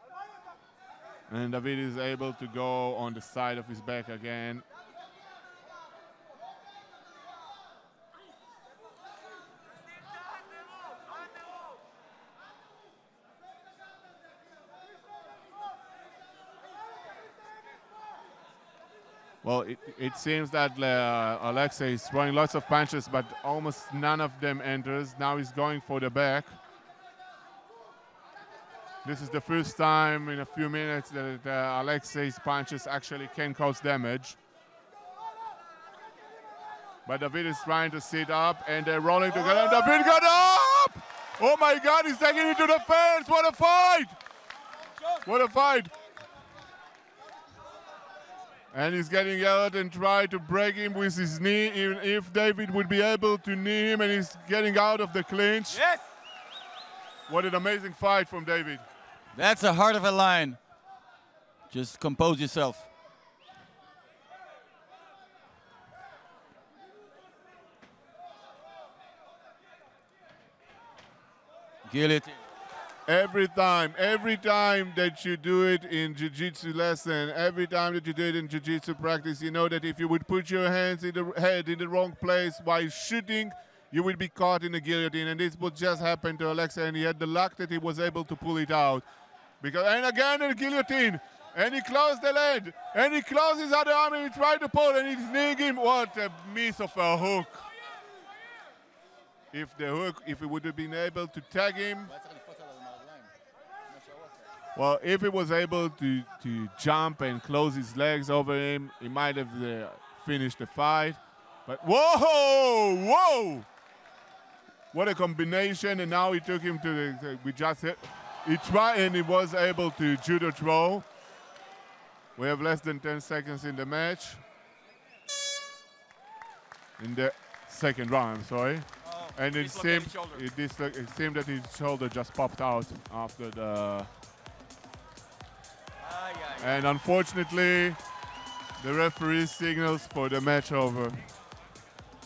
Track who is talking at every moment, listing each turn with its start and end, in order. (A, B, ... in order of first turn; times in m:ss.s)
0:01.3-0:04.6 A
0:19.4-0:26.6 A
0:29.0-0:34.4 A
0:37.0-0:44.2 A
0:45.2-0:45.9 A
0:48.7-0:55.8 A
0:55.7-0:56.1 B
0:57.3-0:58.8 A
0:59.3-1:00.6 B
1:01.7-1:02.9 B
1:11.8-1:12.4 B
1:13.1-1:29.1 A
1:29.6-1:37.7 A
1:39.5-1:42.1 A
1:42.1-1:43.3 B
1:43.9-1:44.5 B
1:44.7-1:53.7 A
1:54.9-2:01.1 A
2:02.4-2:04.4 A
2:07.0-2:14.1 A
2:09.0-2:10.4 B
2:16.0-2:16.9 B
2:16.6-2:18.0 A
2:18.8-2:21.3 A